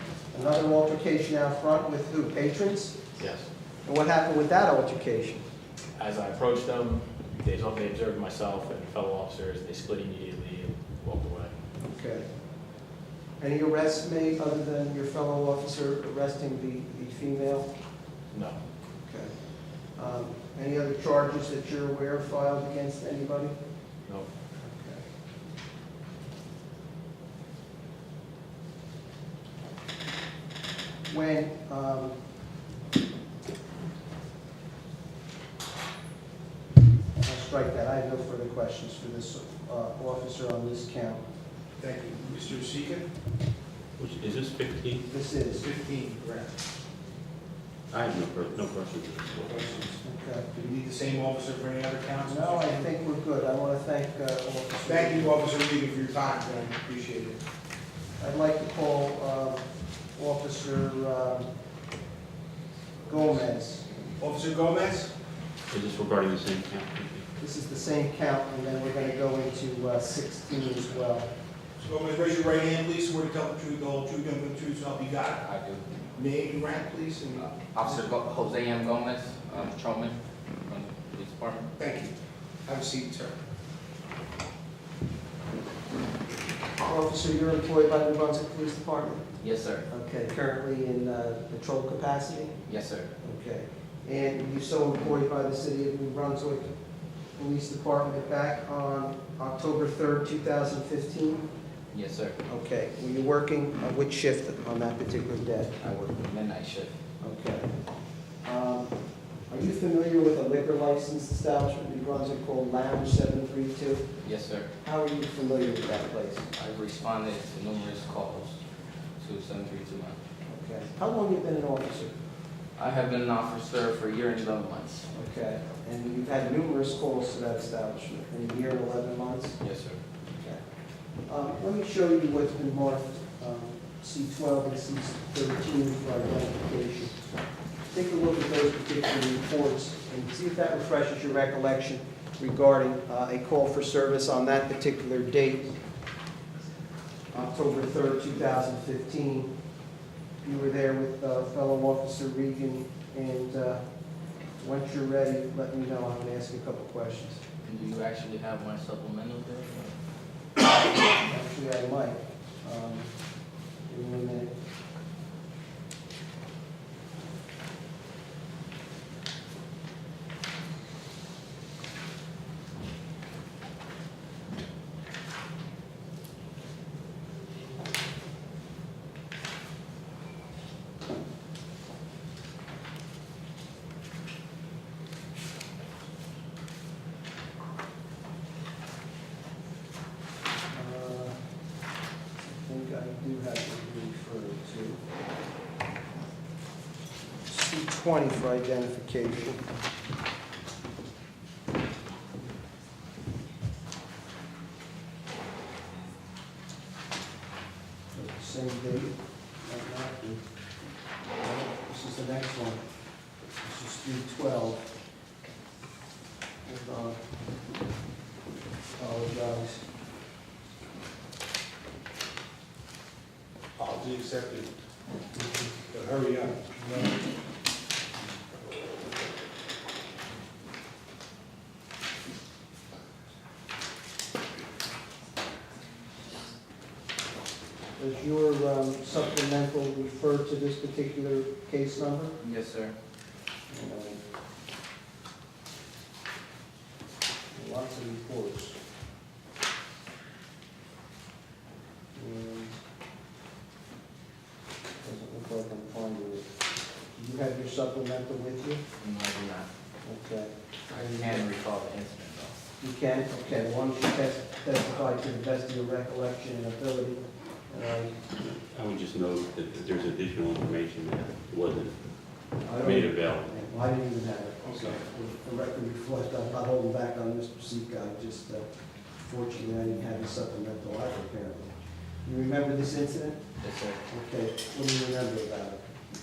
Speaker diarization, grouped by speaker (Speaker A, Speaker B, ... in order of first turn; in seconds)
Speaker A: 0.3-3.0, 3.9-5.4, 11.8-12.3, 13.4-17.7, 19.0-19.3, 19.9-23.5, 24.6-25.0, 31.1-32.2, 37.2-41.2, 45.1-45.6, 50.0-50.5, 52.3-55.4, 58.2-59.6, 60.2-61.5, 63.0-64.2, 67.4-71.3, 86.8-89.2, 89.9-92.6, 93.2-96.7, 97.4-101.5, 102.5-105.7, 107.2-107.7, 108.4-108.9, 109.5-114.1, 114.8-116.5, 120.5-122.1, 125.1-129.6, 130.3-130.6, 131.2-137.2, 137.9-145.8, 147.3-149.5, 150.4-153.8, 154.6-157.4, 161.0-163.1, 163.9-164.6, 190.7-191.4, 192.4-195.0, 197.5-199.7, 208.1-210.4, 211.4-212.8, 213.6-214.9, 216.7-217.2, 219.0-219.8, 238.0-242.3, 243.7-244.2, 247.5-248.8, 252.2-252.7, 255.0-256.5, 257.1-258.8, 260.0-261.5, 262.8-268.2, 272.6-283.4, 284.1-285.9
Speaker B: 3.2-3.5, 6.0-11.5, 18.3-18.6
Speaker C: 41.8-43.1, 45.5-46.5, 49.4-50.0, 50.5-52.9, 54.8-57.4, 64.2-65.1, 71.8-75.4, 76.1-77.9, 81.8-82.1, 82.7-83.4, 223.8-224.7, 225.9-227.2, 274.6-275.0
Speaker D: 44.0-45.1, 47.9-49.6, 65.7-67.3, 268.4-273.6
Speaker E: 75.4-75.8, 77.4-81.7, 89.4-89.9, 92.7-93.1, 101.9-102.4, 105.8-106.9, 114.2-114.7, 116.5-118.6, 119.2-120.2, 122.8-125.1, 129.6-130.0, 157.6-159.9, 242.4-242.9, 259.0-259.7, 260.9-262.6, 283.6-284.0